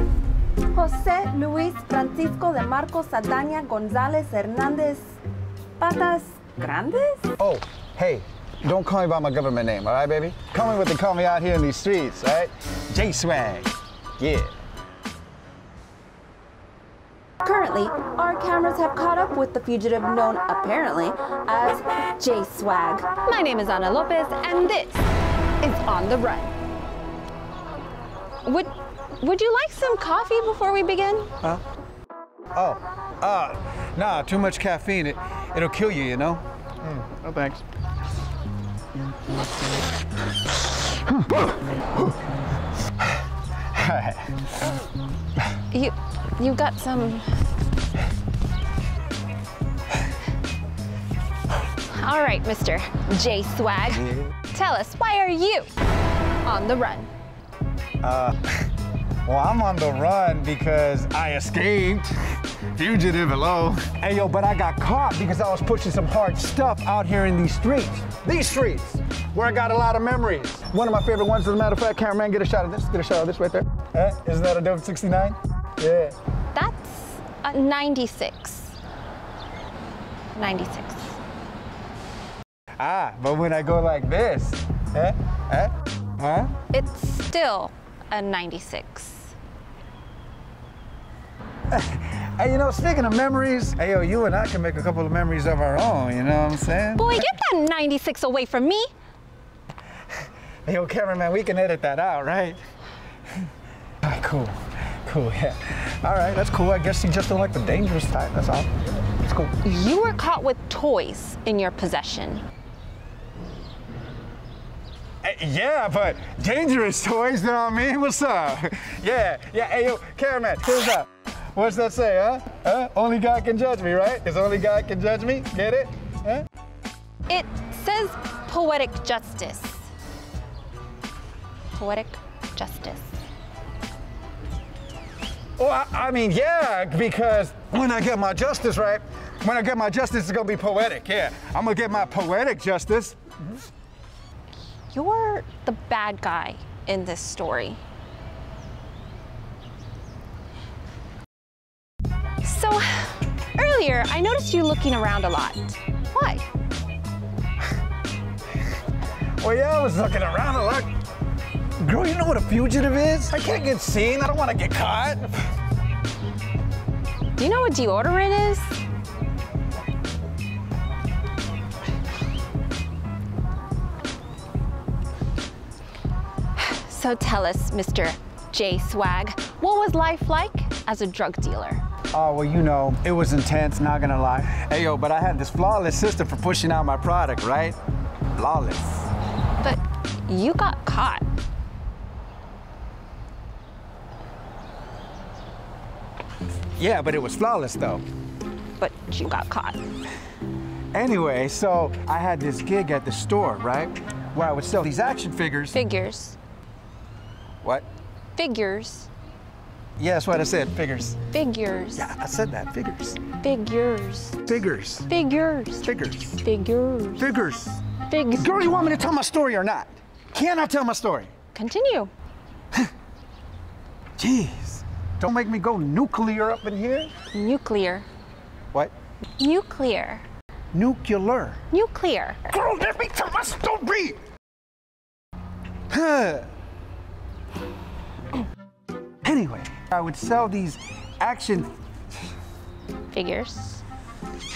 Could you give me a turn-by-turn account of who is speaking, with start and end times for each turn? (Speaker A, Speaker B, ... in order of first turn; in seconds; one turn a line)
Speaker A: 0.7-5.2
Speaker A: 5.8-7.3
Speaker B: 7.4-14.5
Speaker A: 17.4-25.0
Speaker A: 25.6-26.5
Speaker A: 28.4-31.3
Speaker B: 32.5-37.6
Speaker B: 40.9-42.2
Speaker B: 43.1-44.6
Speaker A: 45.7-47.4
Speaker A: 51.7-55.7
Speaker A: 56.4-57.1
Speaker B: 58.0-58.7
Speaker B: 59.2-76.2
Speaker A: 76.5-78.7
Speaker A: 80.3-81.2
Speaker B: 82.8-86.5
Speaker A: 86.7-89.3
Speaker B: 91.7-97.3
Speaker A: 97.0-98.9
Speaker B: 100.7-102.6
Speaker B: 104.0-109.5
Speaker A: 109.6-112.4
Speaker B: 115.2-126.5
Speaker A: 127.3-129.9
Speaker A: 131.7-133.1
Speaker B: 135.6-143.6
Speaker A: 144.9-147.8
Speaker A: 152.4-156.4
Speaker B: 159.4-160.9
Speaker B: 161.8-165.5
Speaker A: 167.4-168.8
Speaker A: 176.6-181.8
Speaker B: 182.1-187.8
Speaker B: 188.3-189.1
Speaker A: 189.6-191.2
Speaker B: 196.8-198.1
Speaker A: 198.8-199.8
Speaker B: 200.9-205.8
Speaker A: 205.7-206.4
Speaker A: 208.4-209.1
Speaker B: 210.0-211.2
Speaker A: 211.3-212.1
Speaker B: 212.0-213.2
Speaker A: 213.3-214.5
Speaker B: 214.4-215.1
Speaker A: 215.1-217.3
Speaker B: 215.8-216.4
Speaker B: 217.2-221.3
Speaker A: 218.0-218.7
Speaker A: 221.5-222.1
Speaker B: 224.2-227.1
Speaker A: 227.3-228.1
Speaker A: 229.4-230.2
Speaker B: 230.7-231.6
Speaker A: 231.7-232.4
Speaker B: 232.5-234.2
Speaker B: 235.9-236.5
Speaker B: 239.2-241.7
Speaker A: 243.1-243.8